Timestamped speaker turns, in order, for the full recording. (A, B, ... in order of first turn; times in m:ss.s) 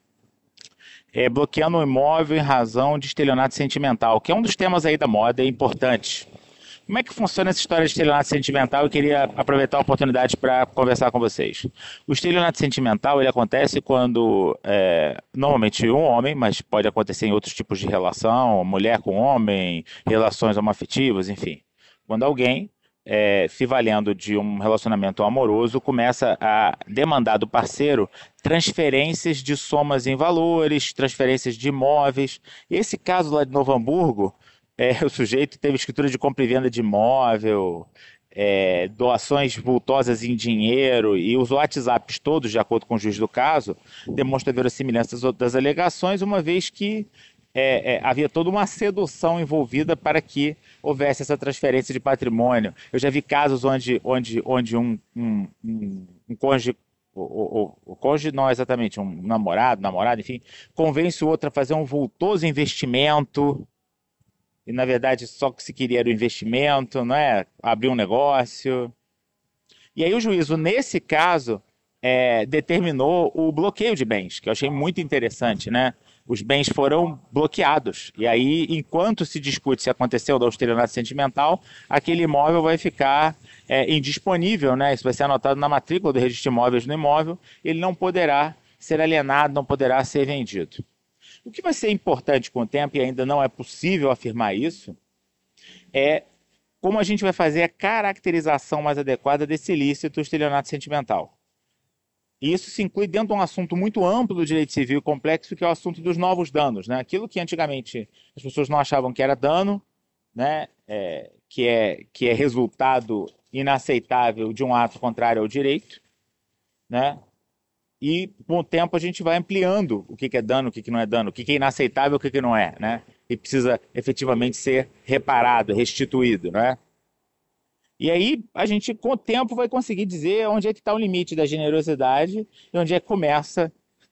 0:01.1-0:06.3 A
0:06.9-1:03.7 A
1:04.6-1:08.9 A
1:09.9-1:30.8 A
1:31.4-1:35.0 A
1:35.9-1:36.2 A
1:36.8-1:41.4 A
1:42.4-1:56.0 A
1:56.9-1:57.2 A
1:58.0-2:06.8 A
2:08.0-2:13.7 A